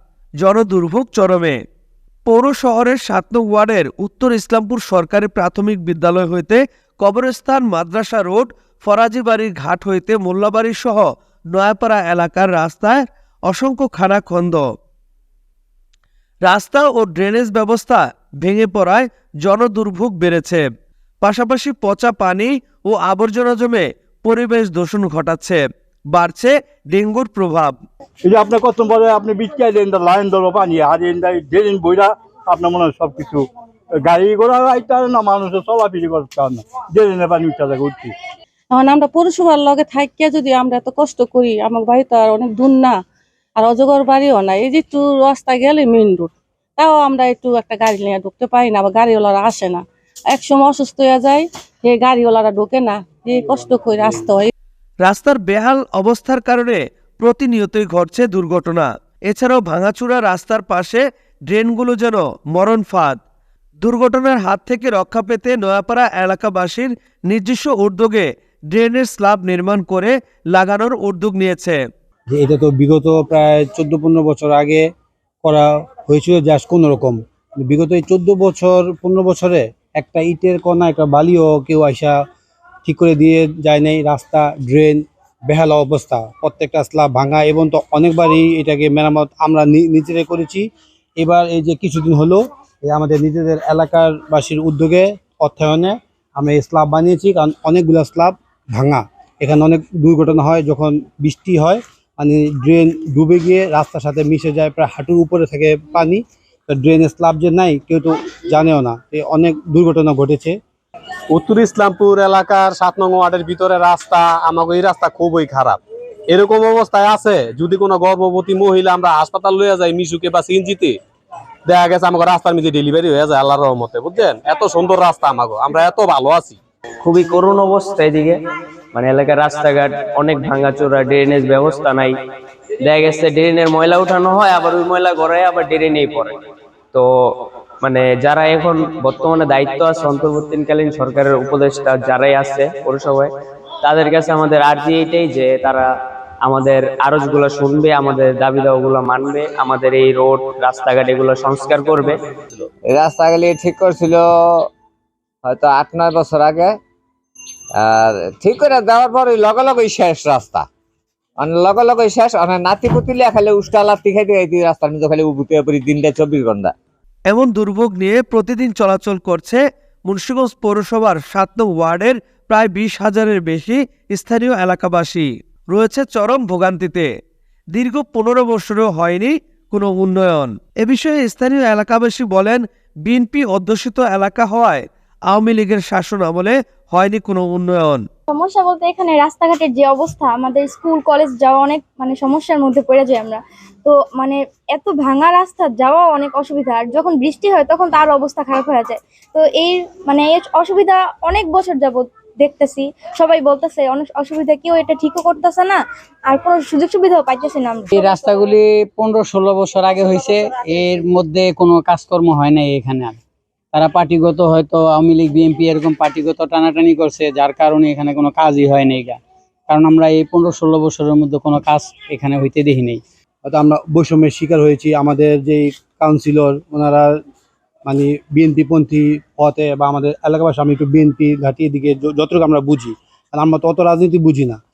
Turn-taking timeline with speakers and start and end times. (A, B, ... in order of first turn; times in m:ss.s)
0:00.4-0:01.6 A
0:02.3-0:14.6 A
0:16.4-0:20.6 A
0:21.2-0:27.8 A
0:28.2-0:33.5 B
0:34.0-0:38.1 B
0:38.7-0:43.0 C
0:43.6-0:54.5 C
0:55.0-1:03.2 A
1:03.8-1:11.8 A
1:12.3-1:14.8 D
1:15.4-1:22.2 D
1:22.8-1:50.6 D
1:51.3-2:01.0 E
2:01.6-2:06.6 E
2:07.0-2:08.4 F
2:08.9-2:12.1 F
2:12.8-2:16.3 F
2:17.8-2:23.3 F
2:23.8-2:25.9 F
2:26.4-2:32.2 F
2:32.9-2:34.7 G
2:35.4-2:36.8 G
2:37.8-2:40.7 G
2:41.4-2:46.7 G
2:47.3-2:57.1 A
2:57.7-3:08.0 A
3:08.3-3:28.4 H
3:28.0-3:33.2 I
3:33.7-3:43.0 I
3:43.4-3:47.2 D
3:47.8-3:54.6 D